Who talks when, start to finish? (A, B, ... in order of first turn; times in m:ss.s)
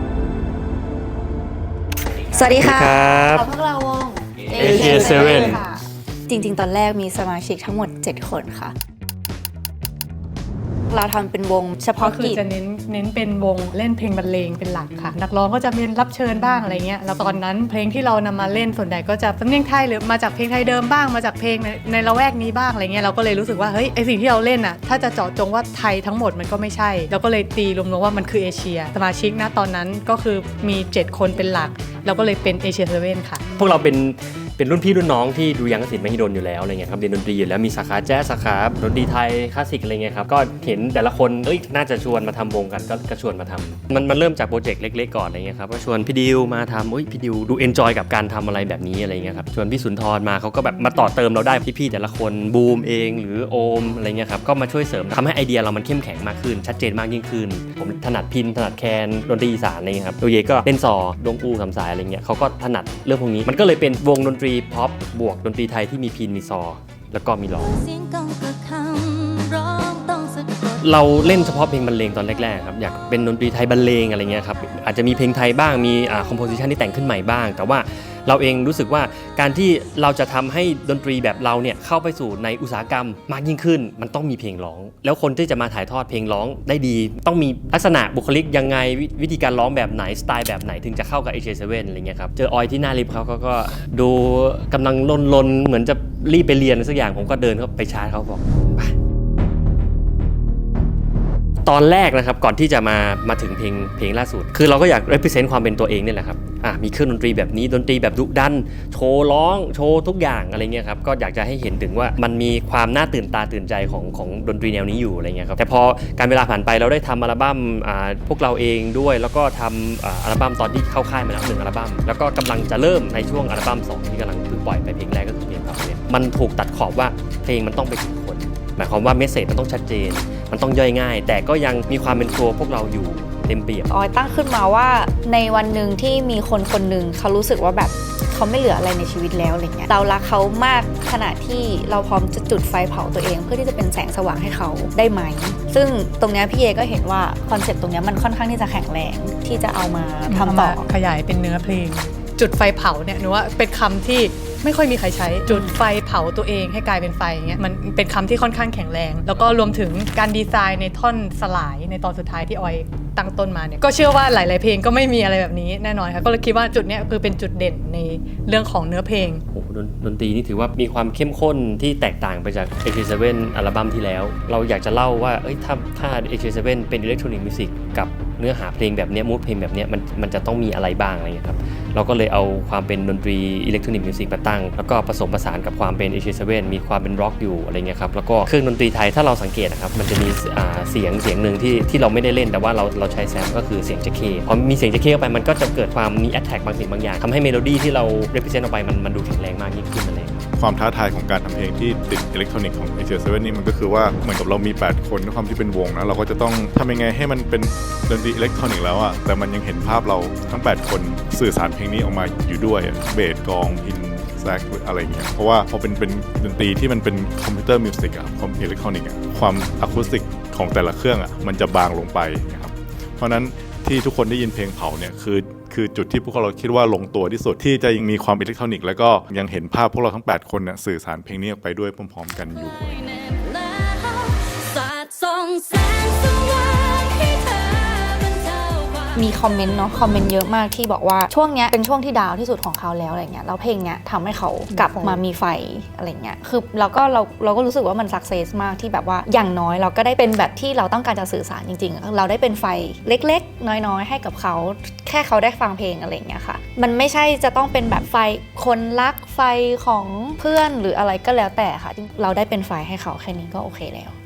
0:02.3-0:08.7 A
0:02.3-0:03.5 B
0:04.6-0:05.6 B
0:10.9-0:12.4 A
0:12.0-0:33.4 C
0:31.2-0:32.4 D
0:33.6-1:07.7 B
1:07.7-1:10.8 D
1:07.9-1:10.8 C
1:10.8-1:38.9 B
1:41.7-2:13.9 B
2:13.9-2:30.8 A
2:30.3-2:49.4 C
2:35.5-2:35.8 A
2:49.5-3:20.4 B
3:20.6-3:53.0 E
3:52.5-3:52.9 C
3:52.6-3:59.1 D
3:59.2-4:24.2 A
4:04.8-4:05.2 C